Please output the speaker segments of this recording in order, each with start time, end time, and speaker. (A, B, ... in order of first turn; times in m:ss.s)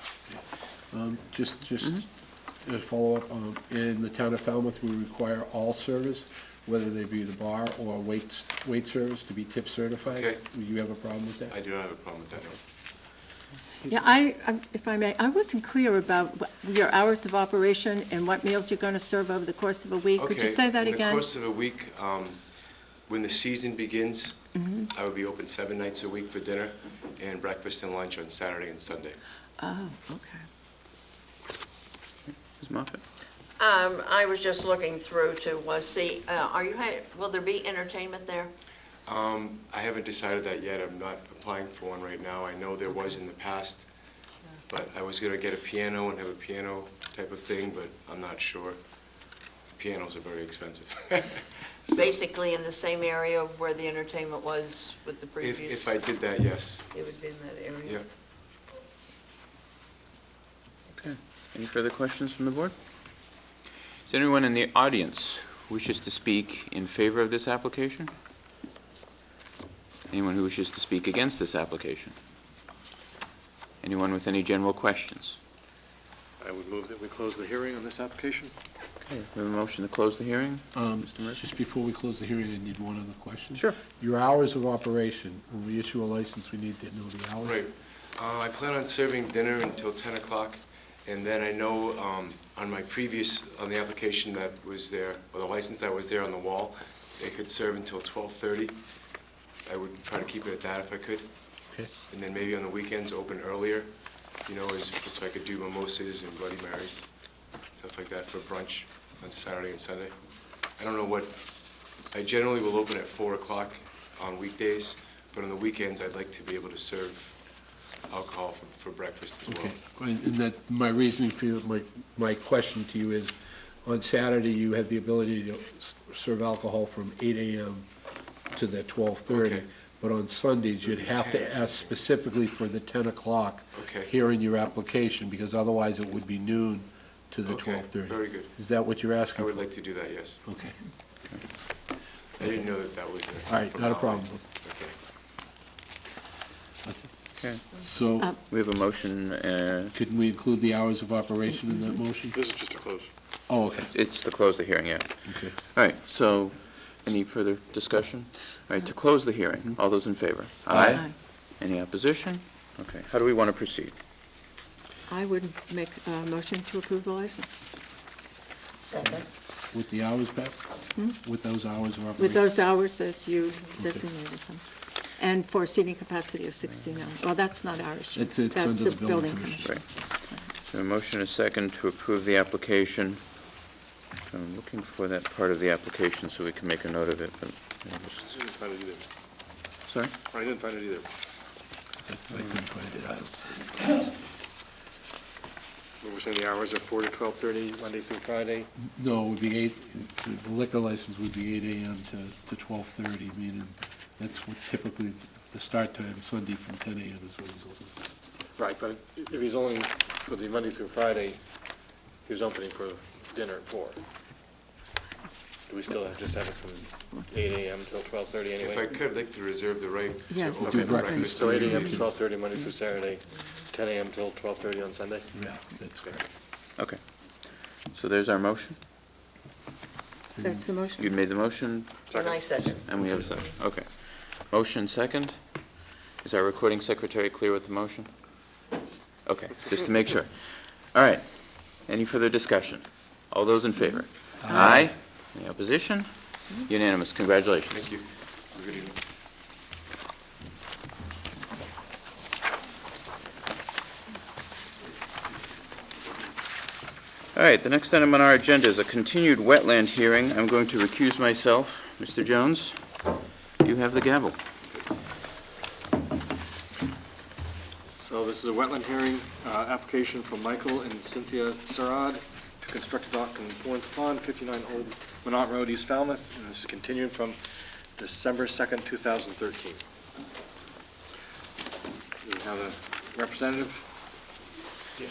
0:00.3-0:02.1 A
0:02.6-0:11.5 A
0:10.0-0:10.4 B
0:11.5-0:12.6 B
0:13.9-0:21.3 C
0:20.2-0:22.4 B
0:23.1-0:29.2 B
0:24.6-0:24.9 C
0:29.6-0:30.4 C
0:32.3-0:33.0 D
0:33.6-0:38.5 E
0:39.1-0:43.9 B
0:44.7-0:48.8 B
0:49.7-0:52.1 B
0:51.9-0:55.9 E
0:55.4-0:56.9 B
0:56.9-0:58.0 E
1:01.0-1:02.8 D
1:04.1-1:08.1 D
1:10.1-1:12.1 D
1:13.8-1:15.4 D
1:16.4-1:18.5 F
1:19.0-1:21.4 D
1:20.8-1:27.6 A
1:27.4-1:38.8 B
1:39.6-1:41.3 B
1:42.1-1:43.9 B
1:44.4-1:47.1 B
1:47.7-1:50.2 B
1:50.8-1:51.4 B
1:52.1-1:57.4 B
1:58.1-1:59.7 B
1:59.5-2:07.9 A
2:08.5-2:19.7 A
2:09.3-2:09.7 B
2:10.8-2:12.0 B
2:13.7-2:14.1 B
2:17.5-2:18.5 B
2:19.4-2:20.4 B
2:20.4-2:20.8 A
2:22.4-2:25.0 B
2:22.4-2:22.7 A
2:23.5-2:24.4 A
2:26.8-2:28.3 A
2:27.4-2:27.6 D
2:28.2-2:30.0 D
2:29.9-2:32.4 A
2:32.3-2:33.1 F
2:33.5-2:33.9 A
2:33.9-2:43.9 D
2:35.3-2:35.6 A
2:40.8-2:41.2 C
2:45.1-2:47.7 C
2:48.8-2:49.1 E
2:49.0-2:52.5 A
2:52.2-3:00.5 C
2:53.8-2:54.0 A
2:58.2-2:59.8 A
2:59.6-3:03.4 D
3:04.3-3:08.2 D
3:08.1-3:09.0 F
3:09.9-3:10.1 D
3:10.3-3:11.1 F
3:12.1-3:14.1 A
3:16.0-3:18.7 F
3:18.8-3:28.0 A
3:28.6-3:31.4 F
3:32.2-3:34.0 F
3:35.7-3:39.0 F
3:38.6-3:42.2 B
3:40.3-3:41.4 C
3:40.6-3:42.0 A
3:41.2-3:45.4 F
3:45.3-3:46.2 A
3:46.8-3:48.8 D
3:50.3-3:50.7 A
3:50.4-3:51.2 C
3:51.0-3:52.1 D
3:52.1-3:53.3 F
3:52.1-3:52.9 E
3:52.8-3:55.4 D
3:56.2-3:58.6 D
3:59.2-4:07.9 D
4:04.4-4:04.9 A
4:04.5-4:04.8 C
4:07.7-4:09.0 B
4:17.3-4:23.1 D
4:23.6-4:24.4 D
4:28.0-4:39.8 F
4:42.2-4:43.9 F